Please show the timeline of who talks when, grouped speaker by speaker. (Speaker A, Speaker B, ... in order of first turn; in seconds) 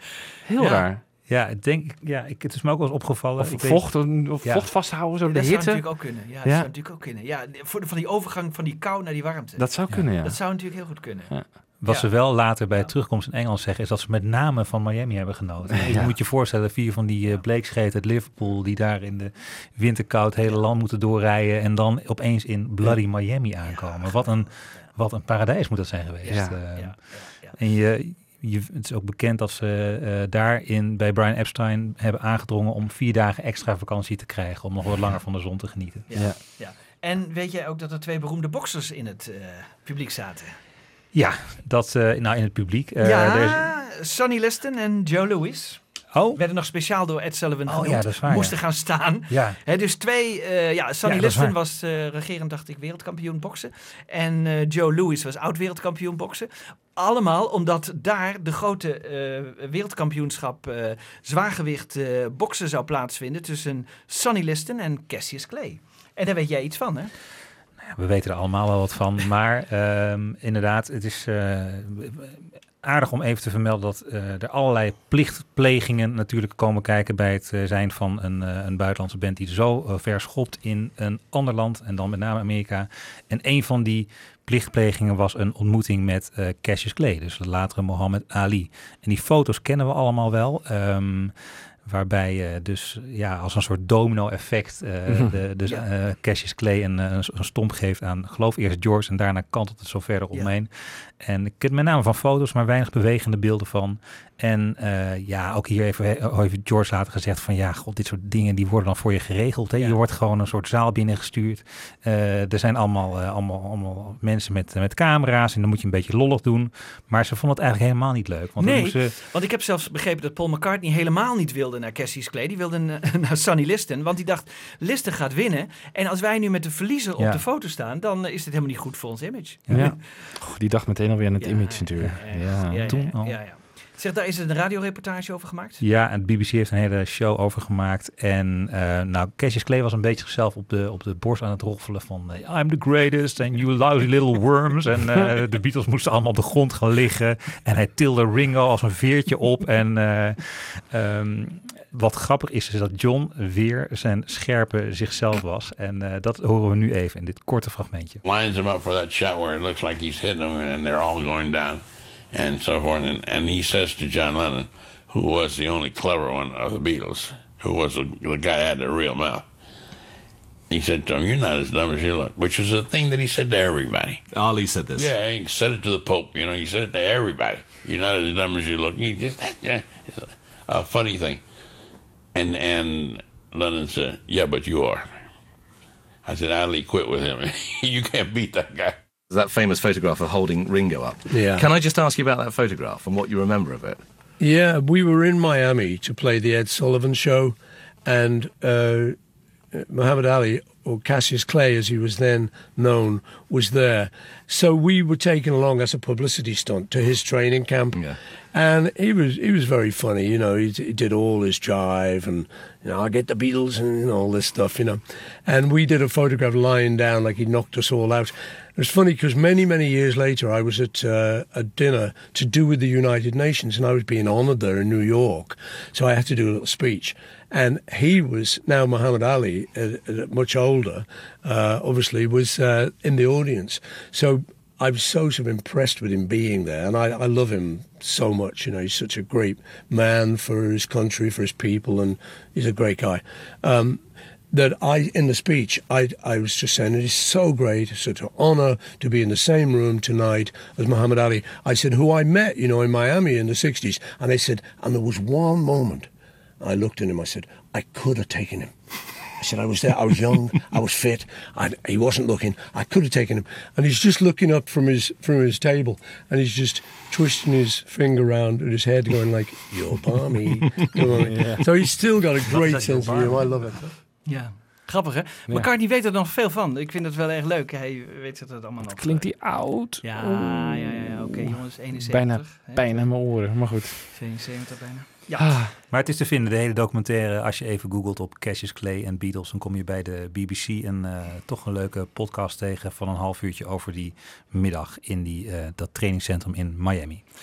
Speaker A: 0.4-1.0, 3.4-5.8, 9.6-10.4, 15.8-16.1, 26.3-26.6, 95.1-95.4, 129.7-132.9, 271.2-271.6, 278.9-284.0, 285.4-285.7
Speaker B: 0.6-0.8, 5.3-9.7, 10.2-11.3, 11.8-12.1, 23.7-24.4, 26.8-27.6, 36.1-40.5, 43.0-45.8, 46.4-67.1, 118.6-129.8, 131.4-135.8, 274.2-279.2, 280.0-283.0, 284.1-285.5
Speaker C: 1.3-4.7, 11.8-26.9, 27.6-36.1, 41.1-43.7, 46.1-46.4, 47.7-48.6, 49.3-49.6, 51.0-51.5, 67.9-91.3, 91.8-119.2, 129.7-129.9, 132.9-133.4, 135.8-158.2, 272.6-273.4, 285.9-297.2
Speaker D: 158.2-169.4, 170.7-174.2, 174.9-181.4, 182.3-185.1, 186.2-189.0
Speaker E: 174.3-175.1, 189.3-194.0
Speaker F: 191.3-191.7, 194.4-199.2, 199.7-244.0, 244.5-256.1, 256.6-258.7, 259.4-273.9